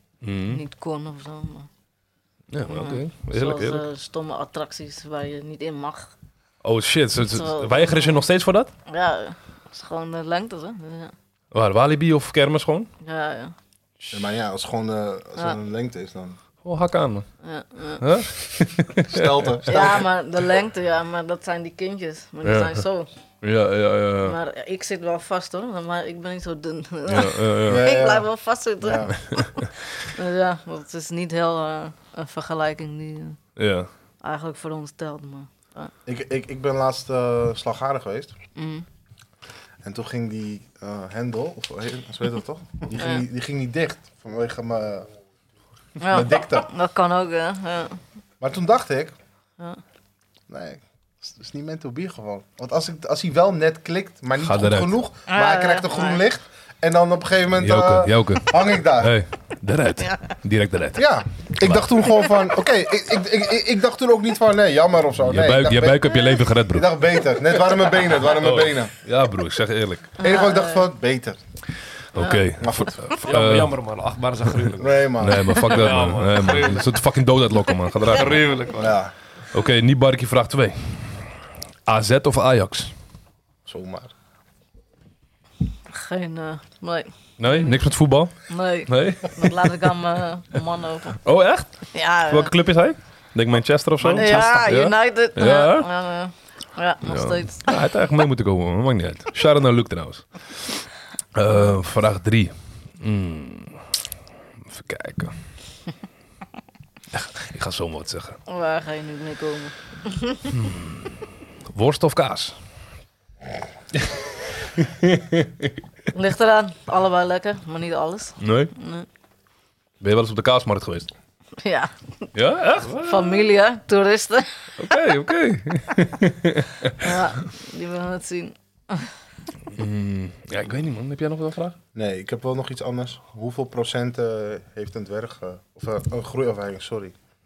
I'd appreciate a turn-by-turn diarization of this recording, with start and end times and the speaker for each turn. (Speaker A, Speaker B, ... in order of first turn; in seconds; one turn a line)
Speaker A: 0.2-0.6
Speaker B: 0.5-1.7
Speaker A: 2.5-3.9
Speaker B: 2.7-6.1
Speaker A: 6.6-8.7
Speaker B: 7.3-8.2
Speaker B: 8.9-11.1
Speaker A: 11.5-12.9
Speaker B: 13.0-13.6
Speaker C: 14.1-16.4
Speaker A: 16.6-17.3
Speaker B: 17.4-18.1
Speaker A: 18.0-19.9
Speaker C: 19.1-20.0
Speaker B: 19.7-23.1
Speaker A: 22.4-22.8
Speaker A: 23.4-24.4
Speaker B: 24.2-33.4
Speaker A: 27.1-27.8
Speaker C: 27.7-29.2
Speaker A: 33.6-33.9
Speaker B: 34.2-35.9
Speaker C: 36.1-38.3
Speaker B: 38.6-38.9
Speaker C: 39.8-45.1
Speaker B: 43.0-43.2
Speaker B: 46.0-48.0
Speaker C: 46.1-46.7
Speaker C: 48.4-49.1
Speaker C: 50.5-59.2
Speaker A: 54.4-55.0
Speaker B: 55.3-56.2
Speaker A: 57.6-61.9
Speaker C: 61.0-66.1
Speaker A: 65.2-66.9
Speaker C: 66.7-68.9
Speaker A: 67.6-70.2
Speaker B: 70.2-70.9
Speaker C: 70.2-71.4
Speaker A: 72.1-73.8
Speaker B: 72.2-72.5
Speaker C: 72.6-73.0
Speaker D: 73.2-75.1
Speaker C: 74.8-75.6
Speaker A: 75.2-78.5
Speaker D: 75.7-77.0
Speaker D: 78.1-79.0
Speaker C: 78.8-79.1
Speaker A: 79.5-81.3
Speaker A: 81.9-82.9
Speaker C: 83.7-84.1
Speaker B: 85.9-87.8
Speaker A: 87.4-89.9
Speaker B: 88.5-91.2
Speaker A: 91.2-95.9
Speaker B: 91.9-92.5
Speaker D: 94.0-94.7
Speaker B: 94.1-97.7
Speaker A: 97.0-103.8
Speaker A: 104.7-105.3
Speaker A: 107.1-108.4
Speaker B: 108.5-110.5
Speaker A: 110.5-111.2
Speaker A: 111.7-112.5
Speaker A: 114.0-115.7
Speaker B: 116.1-119.1
Speaker A: 118.4-118.7
Speaker A: 120.0-121.1
Speaker B: 121.6-122.3
Speaker A: 122.3-123.1
Speaker B: 122.8-125.0
Speaker D: 122.8-123.1
Speaker A: 124.8-127.2
Speaker B: 127.0-129.1
Speaker A: 129.7-131.8
Speaker C: 131.9-137.1